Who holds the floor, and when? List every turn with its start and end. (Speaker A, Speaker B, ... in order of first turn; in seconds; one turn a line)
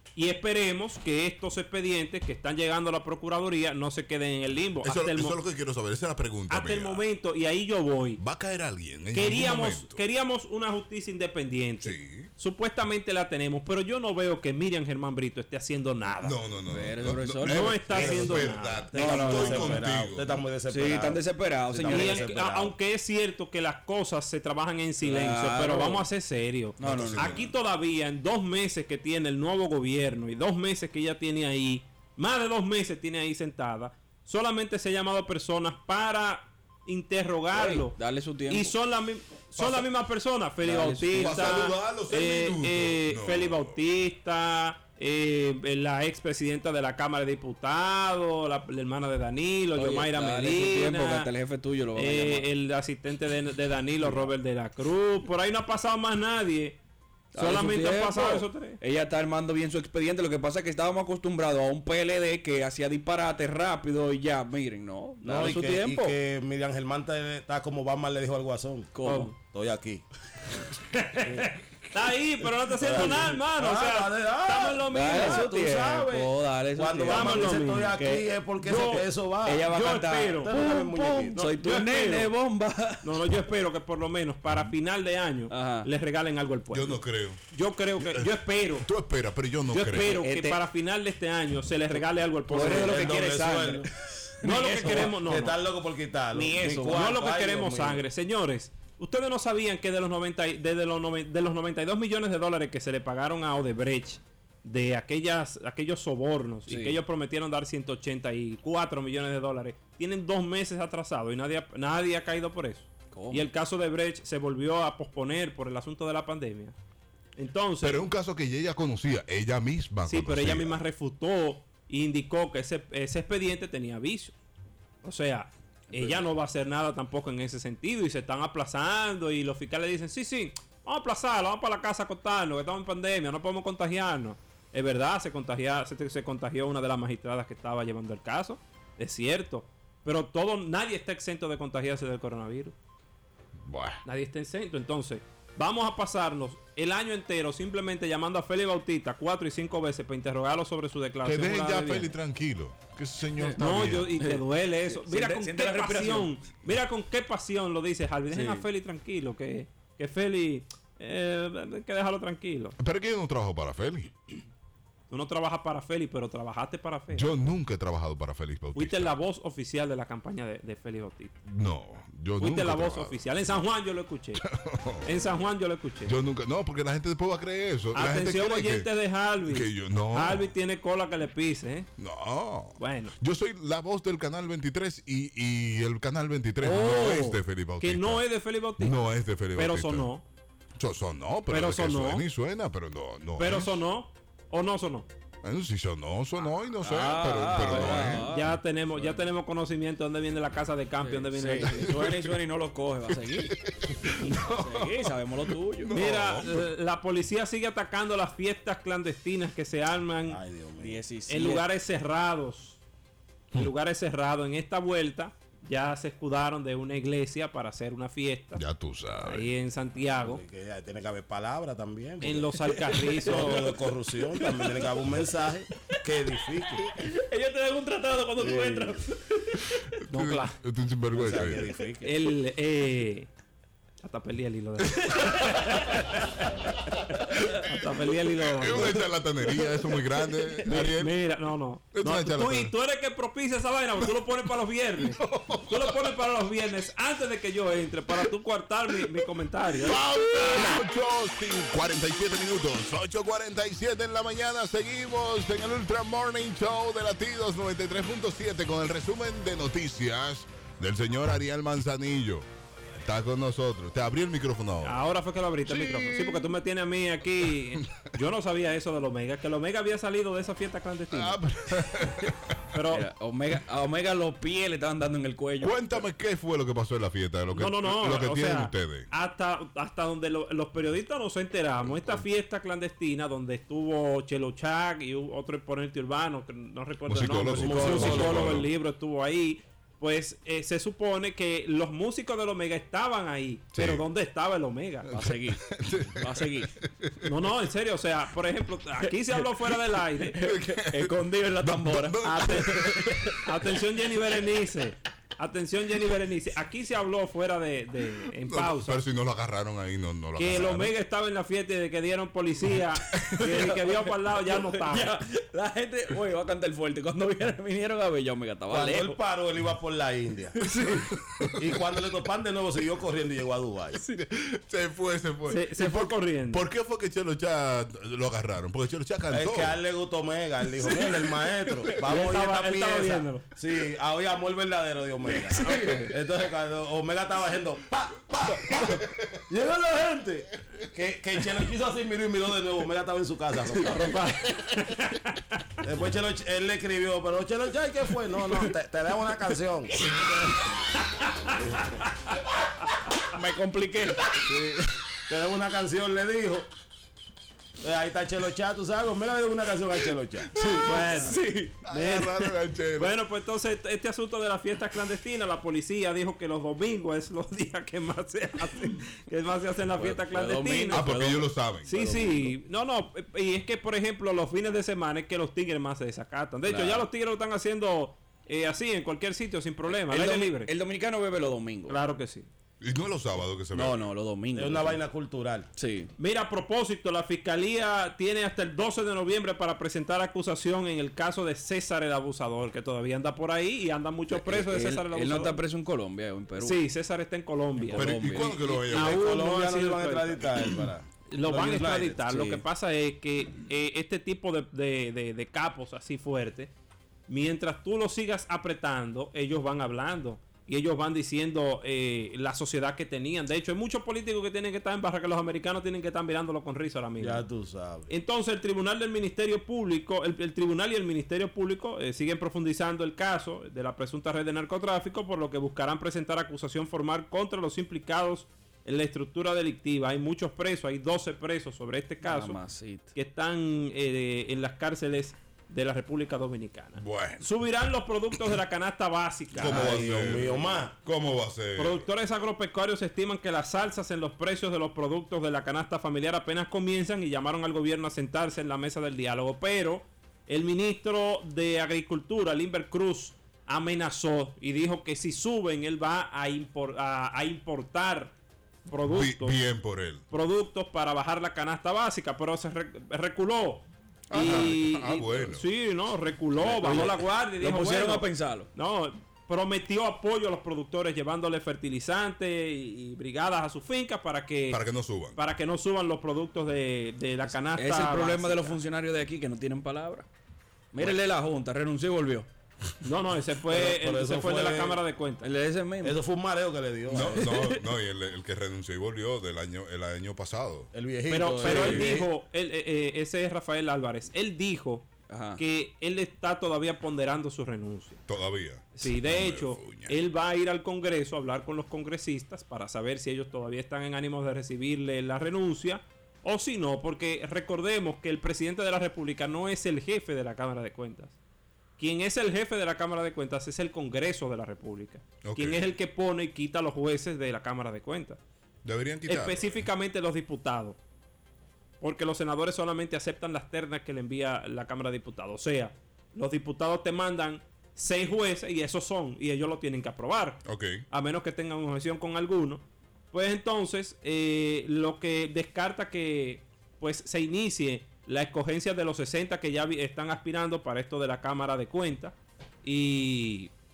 Speaker A: 0.1-5.4
Speaker B: 4.8-7.0
Speaker A: 6.5-8.2
Speaker B: 8.2-10.0
Speaker A: 9.1-16.4
Speaker B: 11.8-12.3
Speaker B: 16.2-20.4
Speaker C: 16.7-18.1
Speaker A: 17.4-18.9
Speaker D: 17.9-22.7
Speaker C: 18.9-19.8
Speaker C: 20.7-22.2
Speaker A: 21.8-38.0
Speaker C: 25.0-26.1
Speaker C: 26.8-27.4
Speaker B: 26.8-27.5
Speaker C: 37.5-38.7
Speaker A: 38.5-51.3
Speaker B: 39.6-39.9
Speaker C: 40.6-41.7
Speaker B: 41.1-43.8
Speaker C: 49.8-52.5
Speaker A: 51.9-56.8
Speaker C: 54.0-54.3
Speaker C: 57.3-66.1
Speaker A: 57.3-58.8
Speaker D: 65.2-70.0
Speaker C: 68.9-69.3
Speaker A: 69.0-69.3
Speaker A: 70.9-75.5
Speaker D: 72.8-79.8
Speaker C: 72.9-73.3
Speaker C: 74.9-78.0
Speaker A: 77.0-79.1
Speaker C: 79.5-83.2
Speaker A: 79.7-80.5
Speaker D: 80.4-81.5
Speaker A: 81.3-82.3
Speaker A: 83.0-88.9
Speaker C: 85.5-85.9
Speaker B: 86.7-87.4
Speaker B: 88.0-90.1
Speaker A: 89.7-93.2
Speaker C: 90.0-90.6
Speaker C: 92.5-95.2
Speaker D: 92.6-93.9
Speaker A: 94.4-95.6
Speaker D: 94.8-98.0
Speaker C: 96.3-97.1
Speaker A: 96.8-116.7
Speaker C: 106.7-107.0
Speaker C: 113.1-113.5
Speaker A: 117.3-118.0
Speaker B: 117.8-120.8
Speaker A: 120.1-124.3
Speaker A: 125.0-142.7
Speaker C: 125.9-126.2
Speaker B: 143.6-144.0
Speaker A: 144.0-152.1
Speaker B: 151.2-154.1
Speaker A: 153.5-162.8
Speaker C: 154.2-156.3
Speaker C: 158.3-158.6
Speaker B: 162.8-164.1
Speaker A: 165.1-167.3
Speaker B: 167.1-169.2
Speaker A: 168.8-171.3
Speaker B: 171.5-173.5
Speaker A: 172.4-174.4
Speaker B: 174.4-175.1
Speaker A: 175.0-176.1
Speaker B: 176.1-178.9
Speaker A: 177.9-181.9
Speaker B: 179.4-180.5
Speaker B: 182.0-188.2
Speaker A: 182.8-183.1
Speaker A: 186.6-189.0
Speaker B: 188.8-190.1
Speaker A: 189.6-190.2
Speaker B: 190.8-193.7
Speaker A: 191.5-192.2
Speaker A: 193.4-195.1
Speaker B: 195.4-198.3
Speaker C: 196.8-199.2
Speaker A: 197.6-202.1
Speaker C: 201.0-203.5
Speaker B: 203.3-204.5
Speaker A: 204.2-205.1
Speaker C: 204.4-205.9
Speaker B: 205.8-206.7
Speaker A: 205.9-210.4
Speaker D: 210.3-211.0
Speaker C: 210.8-211.7
Speaker A: 211.3-212.8
Speaker A: 213.5-218.6
Speaker B: 218.6-219.5
Speaker A: 219.2-220.4
Speaker D: 219.9-226.9
Speaker A: 222.2-223.8
Speaker C: 222.7-224.9
Speaker C: 226.8-229.6
Speaker D: 228.4-229.0
Speaker B: 229.7-231.7
Speaker A: 230.1-230.6
Speaker D: 231.1-232.1
Speaker C: 231.4-231.9
Speaker A: 232.0-233.3
Speaker A: 234.0-239.0
Speaker C: 235.2-236.1
Speaker B: 237.2-237.8
Speaker B: 238.5-241.1
Speaker C: 239.6-240.7
Speaker A: 240.7-250.0
Speaker B: 241.9-242.7
Speaker B: 245.0-246.1
Speaker B: 249.8-262.4
Speaker B: 263.0-265.0
Speaker A: 264.8-271.4
Speaker B: 265.7-266.5
Speaker B: 271.1-272.6
Speaker A: 272.7-273.1
Speaker C: 272.9-276.0
Speaker B: 275.6-279.1
Speaker A: 277.5-295.1
Speaker B: 287.1-288.6
Speaker D: 287.5-288.7
Speaker C: 287.7-288.6
Speaker B: 293.7-294.0
Speaker C: 295.1-296.7
Speaker B: 295.2-297.3
Speaker A: 297.2-300.4
Speaker C: 300.3-303.4
Speaker B: 300.4-303.4
Speaker A: 302.2-309.0
Speaker B: 308.4-310.9
Speaker A: 310.4-315.2
Speaker C: 313.1-319.2
Speaker D: 318.7-321.0
Speaker C: 320.6-321.1
Speaker D: 321.6-324.0
Speaker B: 324.1-329.8
Speaker A: 325.5-326.6
Speaker D: 329.3-344.2
Speaker C: 330.8-332.0
Speaker A: 332.1-333.4
Speaker C: 335.4-336.1
Speaker C: 338.6-338.9
Speaker C: 343.8-344.4
Speaker A: 343.9-345.6
Speaker D: 345.8-350.3
Speaker D: 351.5-352.0
Speaker C: 353.2-354.4
Speaker D: 355.3-356.7
Speaker D: 357.8-360.5
Speaker C: 360.6-361.7
Speaker B: 360.6-361.1
Speaker A: 360.8-371.1
Speaker B: 361.8-363.1
Speaker C: 369.9-371.5
Speaker B: 370.9-371.9
Speaker A: 371.8-380.7
Speaker D: 371.9-372.5
Speaker C: 376.6-377.1
Speaker C: 379.9-382.0
Speaker A: 381.9-382.5
Speaker B: 382.8-384.1
Speaker C: 383.7-385.0
Speaker D: 384.5-385.7
Speaker C: 385.8-386.1
Speaker A: 386.2-395.6
Speaker C: 394.3-396.8
Speaker A: 396.6-400.5
Speaker C: 397.8-398.6
Speaker B: 397.9-399.2
Speaker D: 398.8-402.2
Speaker A: 401.3-406.7
Speaker C: 402.3-402.6
Speaker A: 407.3-417.5
Speaker D: 417.2-418.1
Speaker A: 418.1-432.6
Speaker C: 432.2-433.1
Speaker A: 433.1-440.0
Speaker B: 437.0-437.4
Speaker B: 439.5-442.1
Speaker D: 439.6-440.9
Speaker C: 439.6-440.6
Speaker A: 441.8-458.3
Speaker A: 458.9-459.6
Speaker B: 459.0-460.2
Speaker A: 460.3-474.8
Speaker B: 464.3-465.6
Speaker C: 464.3-464.7
Speaker C: 466.6-468.7
Speaker B: 474.7-475.4
Speaker A: 475.3-478.8
Speaker C: 477.6-480.3
Speaker C: 480.9-482.5
Speaker A: 483.0-485.5
Speaker D: 483.6-485.0
Speaker C: 485.4-486.2
Speaker D: 486.0-487.6
Speaker B: 487.1-490.9
Speaker C: 487.4-487.7
Speaker D: 490.9-492.3
Speaker A: 491.3-498.2
Speaker C: 491.6-492.2
Speaker C: 495.3-495.6
Speaker B: 498.3-500.2
Speaker A: 498.9-511.4
Speaker A: 512.0-518.4
Speaker B: 515.4-515.8
Speaker B: 518.8-519.9
Speaker A: 519.3-521.0
Speaker A: 522.0-543.7
Speaker B: 530.6-531.0